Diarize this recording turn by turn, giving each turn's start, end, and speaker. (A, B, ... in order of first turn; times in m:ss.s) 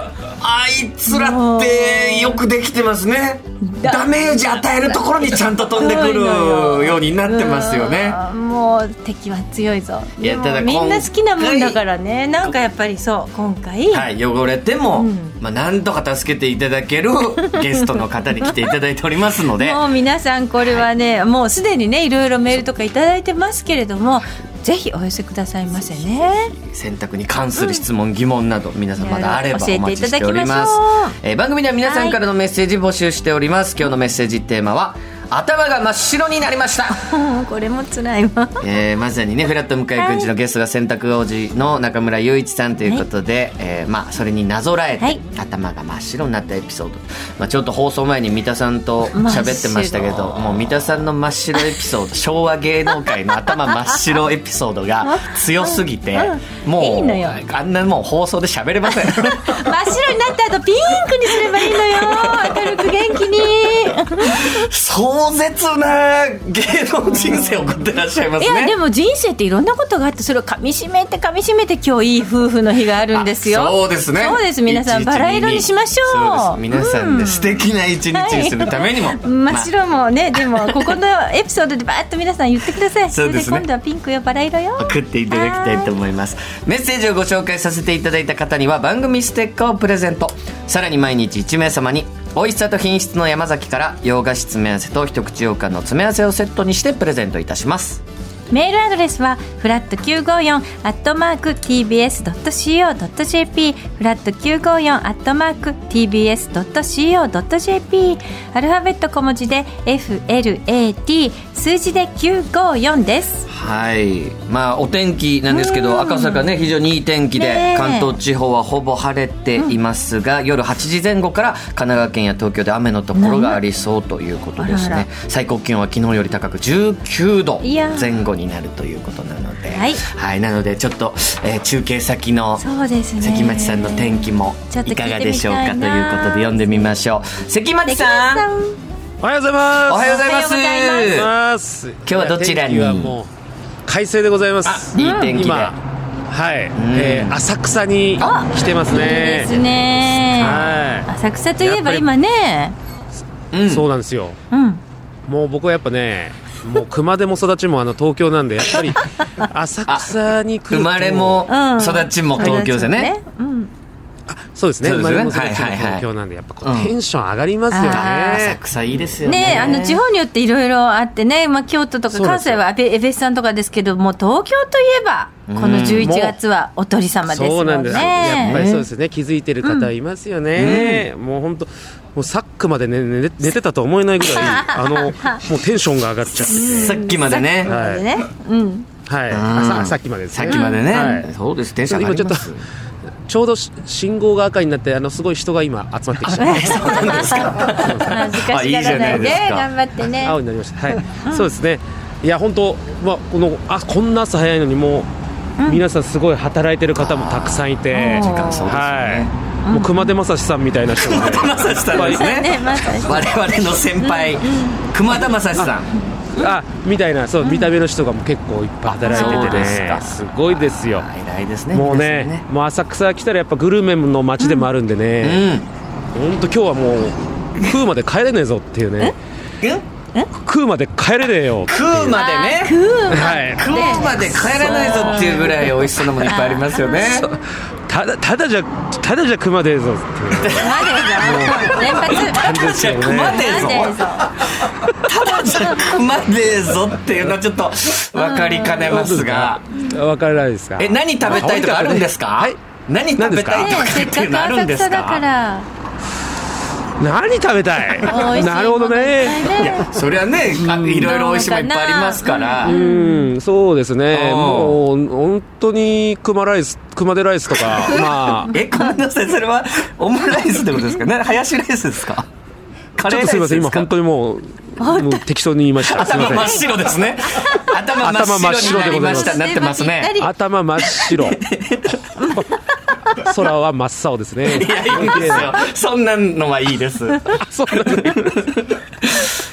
0:00.2-0:08.2 A
0:01.0-0:02.4 B
0:03.6-0:14.1 B
0:10.2-0:11.8 A
0:13.9-0:19.8 A
0:14.9-0:15.3 B
0:17.5-0:17.9 B
0:19.6-0:26.5 B
0:20.6-0:20.9 A
0:25.7-0:37.0 A
0:27.6-0:27.8 B
0:29.0-0:31.2 B
0:31.8-0:32.2 B
0:36.9-0:38.6 B
0:38.6-0:59.6 A
0:40.0-0:40.3 B
0:49.1-0:50.7 B
0:55.0-0:57.4 B
0:59.0-1:04.6 B
1:01.3-1:02.9 A
1:04.2-1:08.7 A
1:08.4-1:26.0 B
1:13.1-1:19.7 A
1:20.3-1:21.0 A
1:23.1-1:23.6 A
1:24.8-1:38.0 A
1:38.5-1:53.5 B
1:53.5-2:12.6 A
1:55.5-1:56.5 B
1:57.4-1:58.1 B
2:03.1-2:03.6 B
2:04.6-2:05.1 B
2:07.6-2:08.2 B
2:09.7-2:10.0 B
2:12.6-2:16.9 B
2:13.2-2:18.5 A
2:17.8-2:18.8 B
2:19.2-2:20.2 C
2:19.9-2:21.3 A
2:20.0-2:21.2 B
2:21.0-2:23.3 C
2:22.0-2:23.2 A
2:23.8-2:25.8 C
2:24.6-2:25.7 A
2:24.9-2:25.3 B
2:26.3-2:29.6 C
2:26.7-2:27.4 A
2:28.2-2:32.8 B
2:30.2-2:30.6 A
2:30.4-2:32.1 C
2:33.5-2:33.9 A
2:33.6-2:34.4 C
2:34.5-2:34.8 B
2:35.2-2:41.5 C
2:39.8-2:40.2 A
2:40.7-2:43.1 A
2:41.4-2:43.7 B
2:42.4-2:42.6 C
2:44.3-2:49.8 C
2:44.8-2:46.0 A
2:46.6-2:46.9 A
2:47.7-2:48.3 B
2:47.9-2:50.0 A
2:49.2-2:58.6 B
2:52.1-2:52.6 C
2:55.5-2:56.1 A
2:56.0-2:56.4 C
2:57.3-3:07.0 C
2:57.9-2:58.9 A
2:59.6-2:59.9 B
3:00.5-3:01.1 A
3:04.3-3:05.4 B
3:06.5-3:08.9 B
3:06.6-3:07.7 A
3:07.6-3:08.0 C
3:09.0-3:11.3 C
3:09.3-3:12.6 A
3:10.5-3:11.1 B
3:11.8-3:12.5 C
3:13.3-3:18.2 C
3:16.2-3:19.7 A
3:16.4-3:20.4 B
3:18.9-3:19.4 C
3:20.2-3:25.1 C
3:21.2-3:21.5 B
3:25.6-3:32.4 C
3:27.9-3:28.7 B
3:28.0-3:29.3 A
3:29.6-3:30.1 B
3:30.9-3:35.9 A
3:32.0-3:34.8 B
3:36.3-3:41.1 C
3:37.4-3:37.7 B
3:38.8-3:42.5 A
3:39.0-3:39.8 B
3:41.7-3:45.4 C
3:44.4-3:44.7 B
3:45.2-3:45.7 A
3:46.1-3:49.1 C
3:50.4-3:52.2 C
3:51.6-3:52.8 A
3:52.1-3:55.7 B
3:53.1-3:55.8 C
3:53.5-3:57.3 A
3:56.2-3:57.1 B
3:57.0-4:03.6 C
4:00.3-4:01.5 A
4:00.6-4:04.4 B
4:02.0-4:04.0 A
4:05.0-4:09.6 A
4:05.3-4:06.0 B
4:08.1-4:09.0 B
4:08.8-4:12.6 C
4:10.8-4:15.2 A
4:13.2-4:14.0 C
4:13.6-4:15.7 B
4:17.0-4:19.8 C
4:18.0-4:19.9 B
4:19.6-4:22.8 A
4:20.5-4:21.3 C
4:21.0-4:23.3 B
4:22.6-4:28.6 C
4:24.1-4:24.8 A
4:27.9-4:32.3 A
4:33.0-4:33.9 A
4:33.0-4:36.6 C
4:34.8-4:35.3 B
4:35.8-4:40.2 A
4:36.0-4:36.6 B
4:37.2-4:37.7 B
4:37.9-4:39.4 C
4:38.6-4:40.3 B
4:40.2-4:41.4 C
4:40.8-4:42.3 A
4:42.2-4:42.4 B
4:42.2-4:42.5 C
4:43.1-4:45.6 C
4:44.4-4:48.7 A
4:47.4-4:48.6 C